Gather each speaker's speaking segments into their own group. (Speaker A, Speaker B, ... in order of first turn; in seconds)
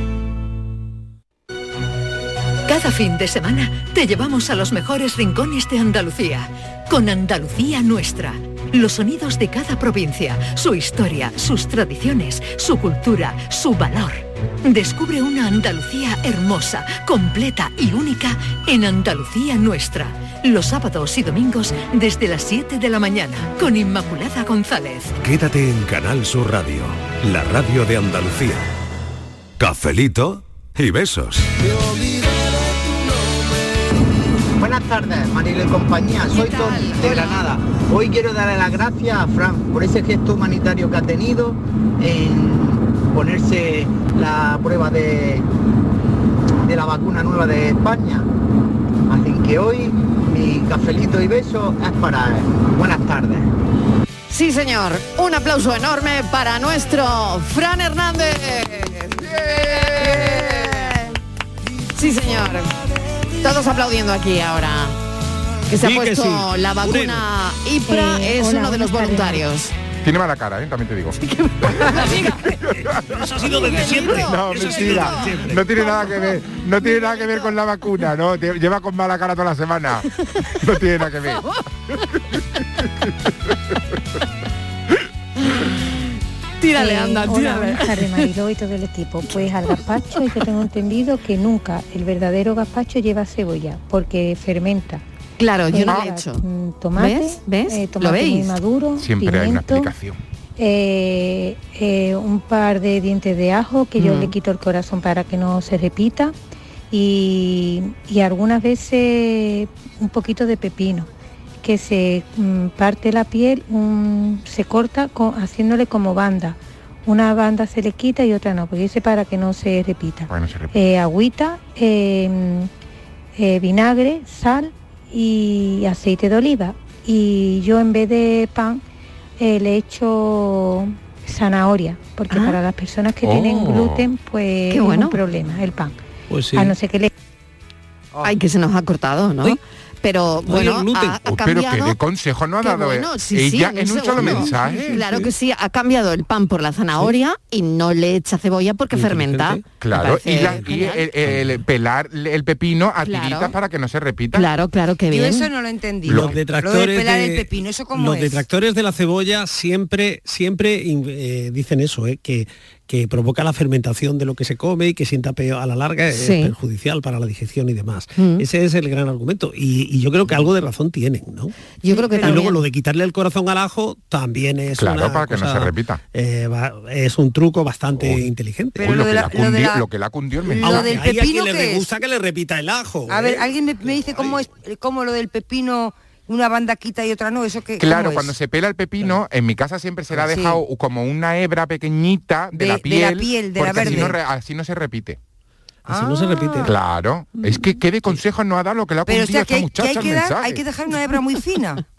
Speaker A: 2.7-25.2
Speaker B: 25.2-28.7, 29.6-31.5
Speaker C: 34.6-45.5, 46.6-48.3, 49.1-53.5
Speaker D: 36.3-37.5, 54.3-61.0, 62.0-62.7, 63.4-65.0, 65.7-69.7, 71.2-72.5, 73.4-77.5, 86.6-88.3, 95.4-96.4, 97.0-98.5, 104.0-104.3, 132.3-132.6, 134.7-135.2, 138.2-142.0, 142.6-151.1, 153.0-153.5, 154.3-155.5, 166.1-166.5, 168.2-168.4, 171.8-172.6
Speaker E: 65.8-67.3, 71.8-72.3, 72.8-75.8, 136.3-136.7, 140.5-141.2, 144.2-145.3, 148.9-149.7, 150.3-151.5, 156.1-179.0, 180.6-183.5, 195.9-196.7
Speaker F: 67.9-69.5, 86.8-95.0, 95.7-99.9, 100.6-106.3, 106.9-111.1, 111.6-122.7, 123.4-128.8, 129.4-136.0, 136.5-137.1
Speaker G: 70.0-72.1, 74.1-80.1, 80.6-81.4, 99.0-100.2, 120.3-120.8, 133.2-134.1, 141.2-145.1, 149.8-154.5, 156.1-156.4, 174.8-176.0, 177.9-178.2, 178.8-181.0, 187.8-195.2, 196.7-200.6
Speaker H: 155.1-158.5, 178.8-179.8, 180.4-181.9, 183.1-188.3, 190.1-190.6, 192.5-194.2, 195.9-196.7, 199.1-201.8